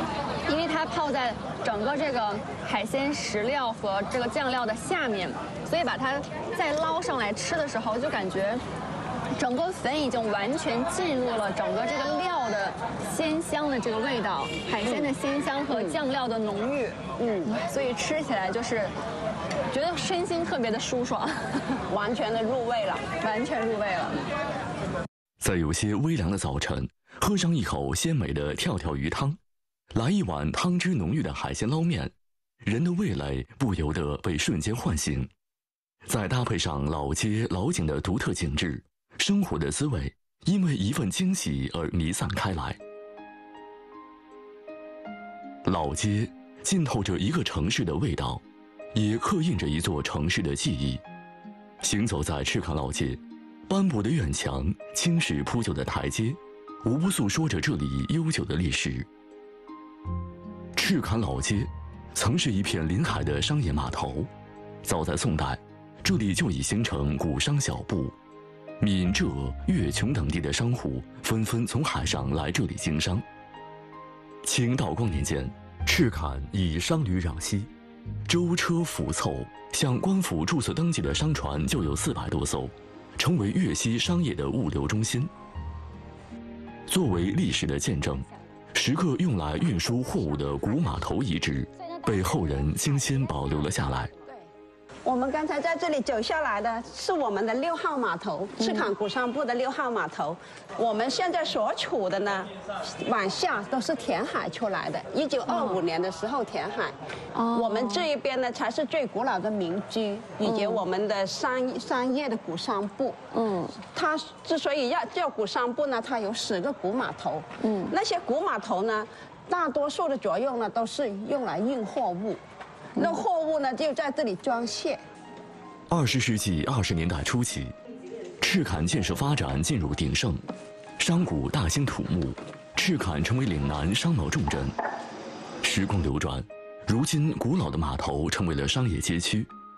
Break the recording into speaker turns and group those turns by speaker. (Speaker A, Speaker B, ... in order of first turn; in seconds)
Speaker A: 0.4-8.6, 9.3-18.9, 19.7-21.8, 23.2-24.3, 91.8-93.3, 98.6-98.9, 105.5-105.8, 107.3-108.1, 110.4-110.8, 113.3-113.7, 117.6-117.9
Speaker B: 14.8-15.1, 15.7-16.0, 17.2-17.6, 21.9-23.0, 95.0-106.9, 107.5-113.2, 113.8-122.4, 123.0-125.0
Speaker C: 25.4-29.4, 29.9-32.1, 32.6-35.3, 36.0-42.8, 45.6-48.4, 48.9-51.0, 51.8-59.1, 60.8-64.3, 64.8-68.1, 68.8-73.2, 74.4-77.7, 78.3-85.3, 86.9-94.1, 125.9-127.7, 128.4-130.4, 131.0-134.7, 135.6-139.5